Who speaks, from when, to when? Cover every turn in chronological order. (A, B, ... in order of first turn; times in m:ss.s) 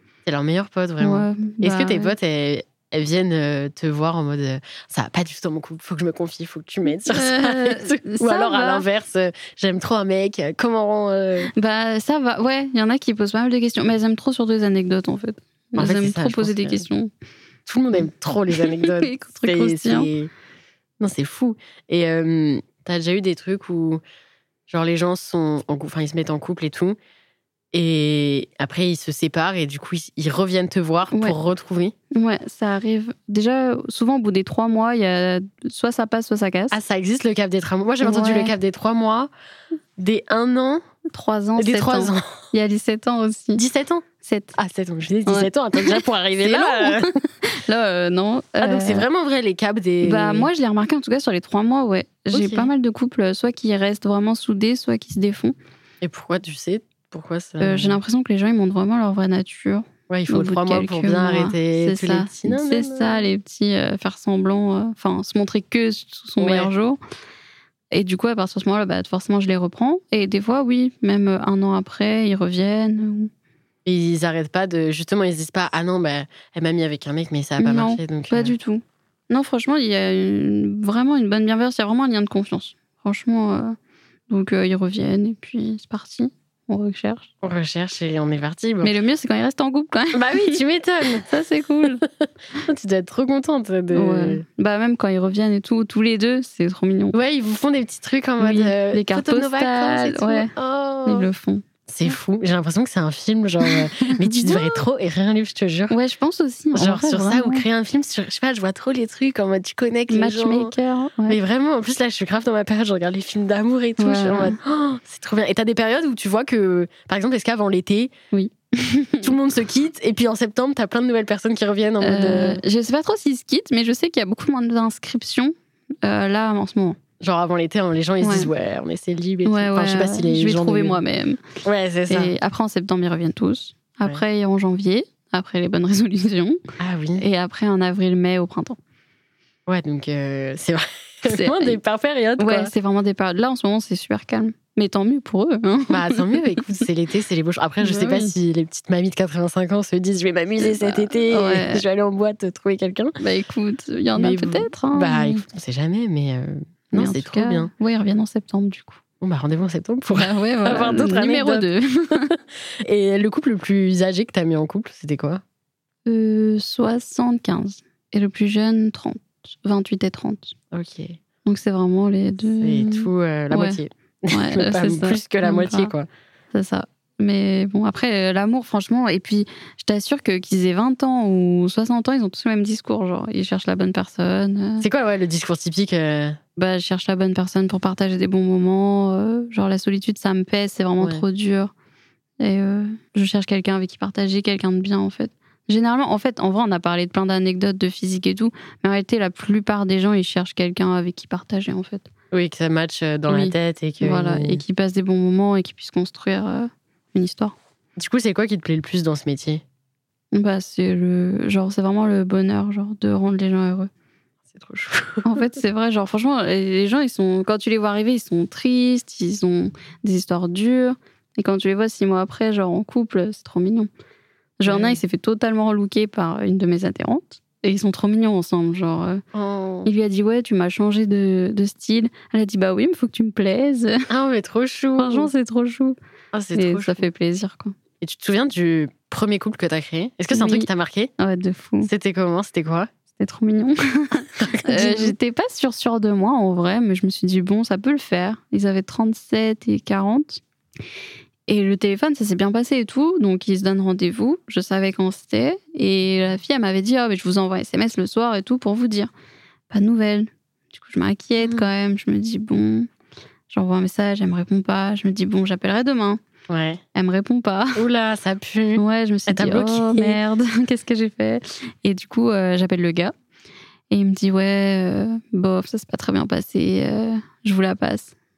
0:00.3-0:11.5 A
0:01.0-0:02.1 B
0:07.0-0:08.9 B
0:11.5-0:17.1 B
0:15.8-0:16.8 A
0:17.7-0:20.3 A
0:18.5-0:20.1 B
0:21.0-0:24.0 A
0:24.7-0:27.0 A
0:27.7-0:32.0 A
0:31.1-0:31.4 B
0:32.1-0:36.8 B
0:36.7-0:39.3 A
0:38.0-0:38.5 B
0:40.0-0:40.8 A
0:41.1-0:43.6 B
0:41.6-0:42.4 A
0:43.6-0:47.1 A
0:44.2-0:44.6 B
0:45.3-0:49.1 B
0:48.6-0:50.5 A
0:50.0-0:55.6 B
0:52.3-0:52.7 A
0:56.0-0:58.0 A
0:57.6-1:07.0 B
1:00.1-1:03.2 A
1:06.4-1:06.7 A
1:07.9-1:13.3 B
1:13.8-1:18.5 A
1:17.6-1:23.8 B
1:24.3-1:27.3 B
1:27.4-1:28.9 A
1:28.8-1:30.6 B
1:30.1-1:31.3 A
1:31.2-1:32.0 B
1:32.7-1:34.4 A
1:33.9-1:37.2 B
1:37.1-1:41.3 A
1:38.4-1:40.5 B
1:41.1-1:42.1 B
1:41.9-1:45.9 A
1:43.6-1:44.8 B
1:45.9-1:47.7 B
1:46.8-1:50.7 A
1:50.1-1:51.4 B
1:51.3-1:58.1 A
1:54.0-1:54.6 B
1:58.3-1:59.3 B
1:59.2-2:02.6 A
2:02.0-2:07.0 B
2:07.2-2:11.0 A
2:08.2-2:08.5 B
2:09.4-2:11.5 B
2:11.6-2:12.3 A
2:12.1-2:16.6 B
2:16.8-2:17.2 A
2:17.2-2:18.8 B
2:19.7-2:22.7 A
2:21.2-2:21.8 B
2:22.4-2:26.8 B
2:25.9-2:33.2 A
2:27.8-2:28.3 B
2:30.6-2:31.8 B
2:33.2-2:35.4 B
2:34.2-2:37.7 A
2:36.9-2:39.0 B
2:39.2-2:45.4 A
2:40.1-2:42.3 B
2:46.1-2:50.6 B
2:50.7-2:51.2 A
2:51.4-2:55.9 B
2:52.6-2:56.1 A
2:56.5-3:04.8 B
3:04.8-3:06.4 A
3:06.6-3:11.7 B
3:12.4-3:22.1 B
3:22.3-3:24.6 A
3:23.3-3:27.6 B
3:28.0-3:29.6 A
3:30.3-3:33.9 B
3:34.5-3:35.3 A
3:35.2-3:43.9 B
3:44.6-3:49.2 B
3:44.7-3:45.0 A
3:49.3-3:49.9 A
3:49.8-3:54.1 B
3:54.1-3:55.3 A
3:55.0-3:56.0 B
3:56.3-3:57.1 A
3:56.5-3:57.8 B
3:58.0-4:01.1 A
4:00.3-4:01.9 B
4:01.8-4:02.9 A
4:03.2-4:10.4 B
4:04.4-4:05.2 A
4:11.5-4:19.1 B
4:19.7-4:22.9 B
4:23.5-4:26.2 B
4:26.5-4:26.8 A
4:27.0-4:27.8 B
4:27.8-4:30.2 A
4:28.8-4:33.1 B
4:33.9-4:38.1 B